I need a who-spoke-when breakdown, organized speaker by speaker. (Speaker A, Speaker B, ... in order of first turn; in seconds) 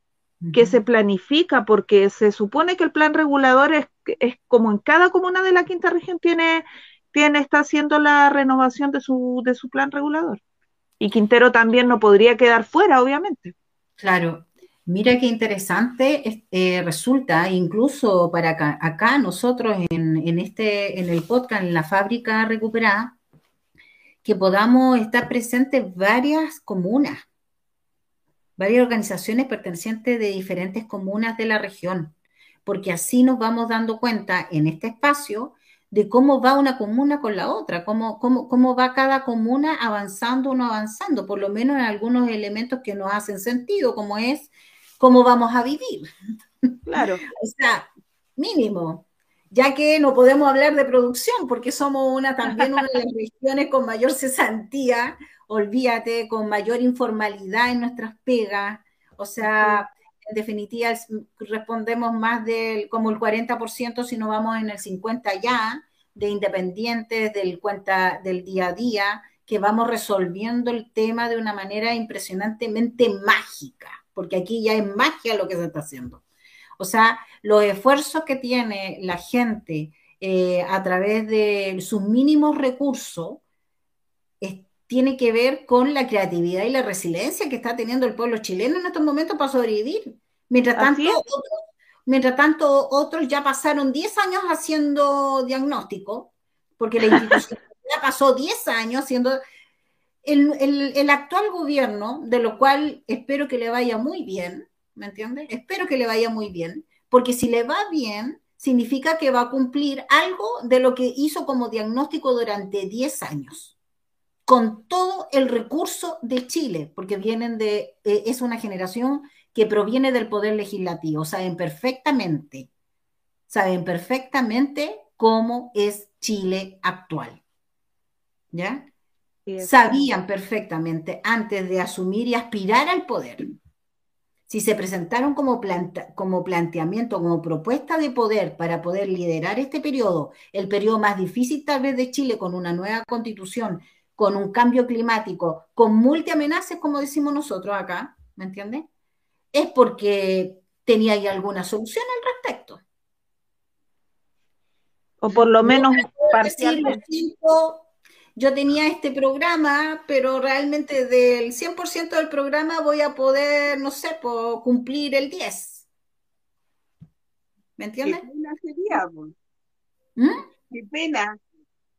Speaker A: 0.4-0.8, 14.0-23.2, 24.2-27.2, 28.6-32.1, 32.6-46.1, 47.3-76.2, 76.8-83.4, 84.4-99.4, 100.2-113.8, 114.5-122.7, 123.5-127.4, 128.5-128.9, 129.6-133.5, 134.5-148.9, 149.5-152.8, 155.6-165.8, 167.8-168.2, 170.2-170.5
Speaker B: 0.5-10.4, 11.0-13.5, 46.9-47.2, 90.8-91.2, 129.4-130.1, 155.2-157.0
Speaker C: 168.0-169.3, 170.7-171.4